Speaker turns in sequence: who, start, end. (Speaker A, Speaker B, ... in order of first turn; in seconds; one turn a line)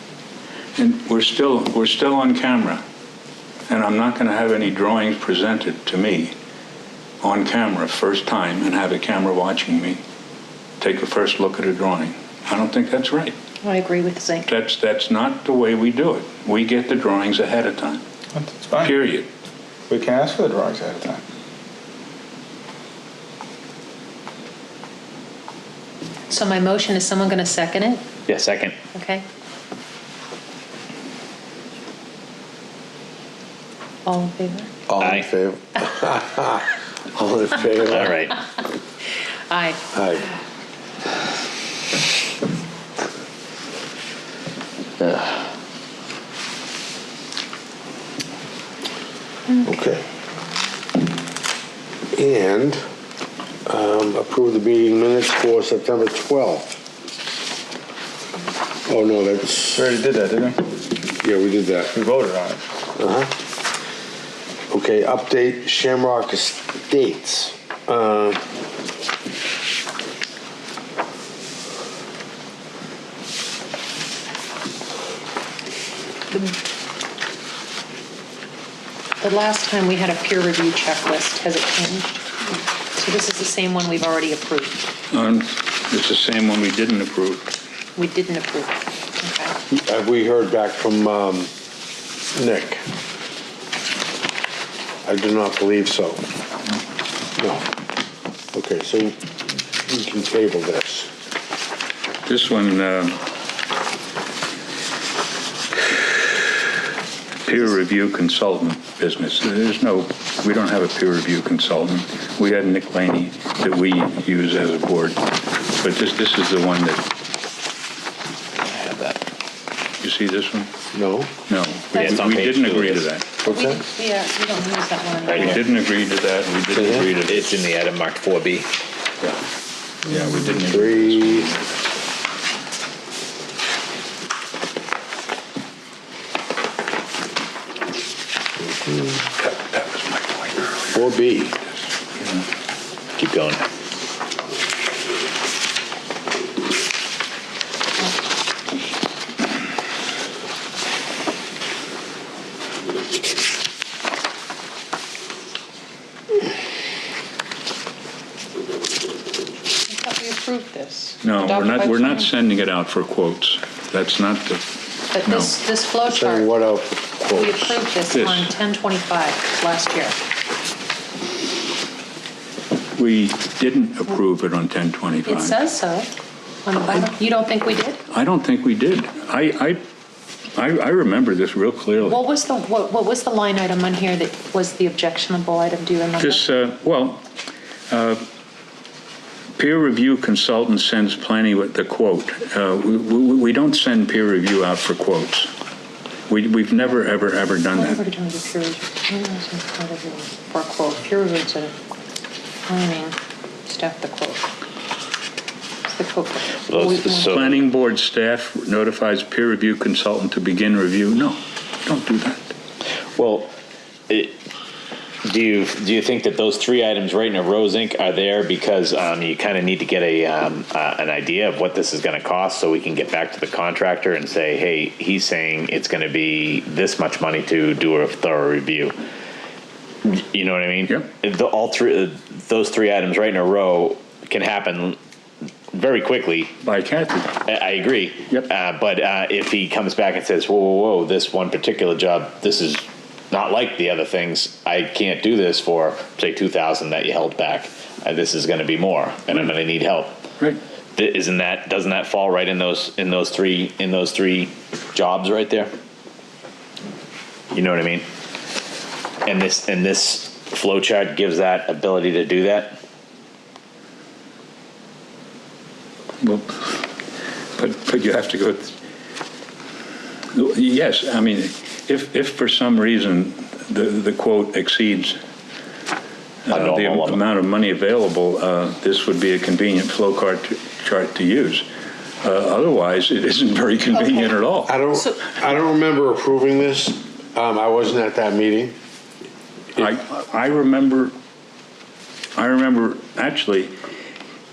Speaker A: 0.8-2.8
Speaker A: 3.7-6.3
Speaker A: 7.2-10.0
Speaker A: 10.8-13.4
Speaker B: 13.6-14.5
Speaker A: 14.5-18.0
Speaker C: 18.4-18.9
Speaker A: 18.8-19.3
Speaker C: 19.9-21.2
Speaker B: 26.3-28.1
Speaker D: 28.3-28.8
Speaker B: 28.9-29.2
Speaker B: 34.0-34.8
Speaker E: 34.9-38.2
Speaker D: 35.0-35.3
Speaker D: 37.9-38.3
Speaker B: 39.5-39.8
Speaker E: 39.9-40.3
Speaker E: 49.6-50.0
Speaker E: 52.1-52.8
Speaker E: 53.7-56.8
Speaker E: 58.9-59.9
Speaker C: 59.8-60.6
Speaker E: 61.2-61.9
Speaker C: 61.9-62.6
Speaker E: 62.9-63.3
Speaker E: 64.7-68.4
Speaker B: 79.2-82.3
Speaker B: 82.9-84.8
Speaker A: 85.1-87.5
Speaker B: 88.0-89.5
Speaker E: 89.7-91.5
Speaker E: 92.3-92.8
Speaker E: 95.0-96.2
Speaker E: 97.4-97.7
Speaker E: 98.5-101.1
Speaker A: 102.2-103.2
Speaker A: 107.4-117.0
Speaker D: 118.6-119.2
Speaker A: 120.0-120.7
Speaker E: 120.9-121.3
Speaker A: 121.5-123.3
Speaker B: 121.9-122.5
Speaker D: 121.9-123.1
Speaker B: 123.4-125.6
Speaker E: 123.5-123.8
Speaker D: 125.3-125.6
Speaker A: 125.4-127.6
Speaker D: 127.2-128.7
Speaker A: 130.0-131.7
Speaker E: 130.1-131.5
Speaker A: 139.4-141.2
Speaker E: 140.9-141.6
Speaker A: 142.2-142.4
Speaker D: 143.2-143.7
Speaker B: 159.9-162.3
Speaker A: 161.2-164.6
Speaker B: 165.1-166.5
Speaker A: 165.2-165.6
Speaker E: 166.1-167.6
Speaker B: 167.2-170.2
Speaker A: 168.1-168.5
Speaker A: 172.9-175.6
Speaker B: 175.2-176.1
Speaker B: 176.7-178.0
Speaker A: 178.1-179.8
Speaker A: 180.6-182.2
Speaker B: 182.0-186.4
Speaker A: 186.2-187.2
Speaker A: 187.9-188.2
Speaker A: 189.6-195.5
Speaker A: 196.3-198.0
Speaker B: 197.7-201.7
Speaker B: 202.7-204.5
Speaker B: 205.9-207.4
Speaker D: 206.7-207.6
Speaker A: 207.2-212.5
Speaker D: 213.2-213.5
Speaker D: 214.1-214.4
Speaker D: 215.2-228.9
Speaker D: 230.0-235.0
Speaker D: 235.7-236.5
Speaker A: 236.6-237.4
Speaker D: 237.4-250.2
Speaker D: 250.9-255.7
Speaker D: 257.5-258.1
Speaker D: 259.2-262.8
Speaker A: 266.2-266.9
Speaker A: 267.6-268.7
Speaker A: 270.3-275.2
Speaker A: 276.4-281.6
Speaker D: 276.5-277.2
Speaker A: 282.2-284.8
Speaker B: 283.9-284.3
Speaker E: 284.7-288.8
Speaker B: 284.9-285.2
Speaker A: 289.8-291.1
Speaker A: 292.3-293.7